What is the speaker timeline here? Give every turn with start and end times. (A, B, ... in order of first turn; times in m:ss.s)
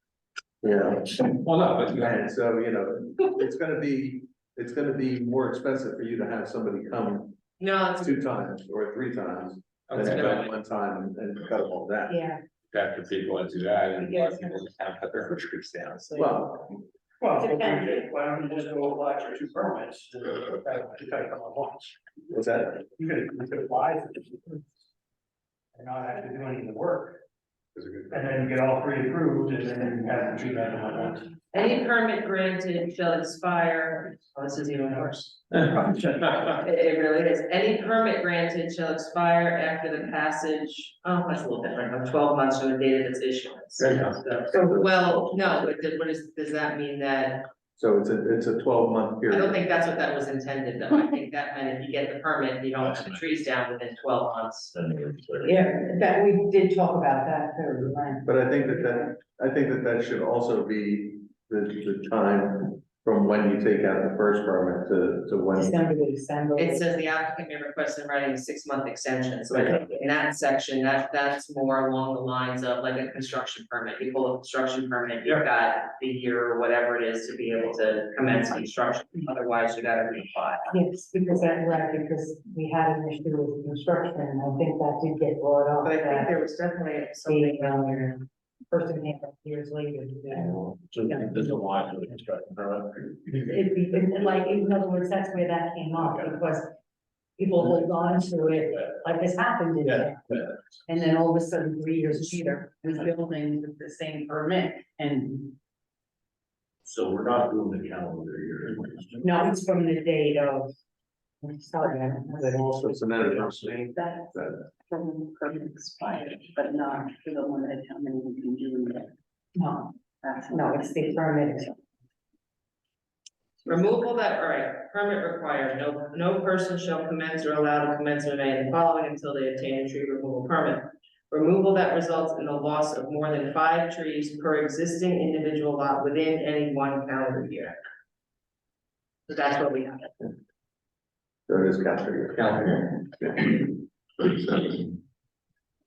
0:00.6-0:07.4 A
0:01.4-0:01.7 B
0:07.6-0:08.3 C
0:08.0-0:12.2 A
0:09.9-0:10.5 B
0:12.1-0:12.4 D
0:12.7-0:16.2 B
0:14.0-0:14.5 D
0:16.1-0:16.8 A
0:17.2-0:22.0 E
0:17.4-0:18.1 D
0:22.3-0:22.8 A
0:22.8-0:24.7 E
0:25.7-0:27.2 E
0:27.8-0:28.1 A
0:28.1-0:31.4 E
0:31.5-0:35.4 C
0:35.7-0:36.4 E
0:36.4-0:47.5 C
0:43.8-0:45.6 A
0:47.8-0:49.6 A
0:49.3-0:54.7 C
0:52.8-0:53.3 F
0:54.7-0:55.6 F
0:55.4-0:59.1 D
0:58.2-1:05.8 A
1:05.5-1:07.0 D
1:06.6-1:20.7 C
1:20.7-1:26.4 D
1:25.8-1:28.1 C
1:27.2-1:31.4 D
1:30.5-1:33.6 F
1:33.4-1:36.7 D
1:36.0-1:36.4 F
1:37.4-1:45.5 D
1:37.7-1:39.1 F
1:39.8-1:40.9 F
1:46.8-1:49.4 F
1:49.2-1:50.7 D
1:51.4-1:52.8 D
1:52.3-1:54.7 A
1:54.0-1:54.3 D
1:55.6-1:56.5 D
1:55.7-1:56.2 G
1:56.7-1:58.9 G
1:59.6-1:59.9 D
2:00.3-2:00.9 G
2:00.5-2:01.8 D
2:03.6-2:17.8 C
2:19.3-2:20.1 C
2:21.5-2:24.9 A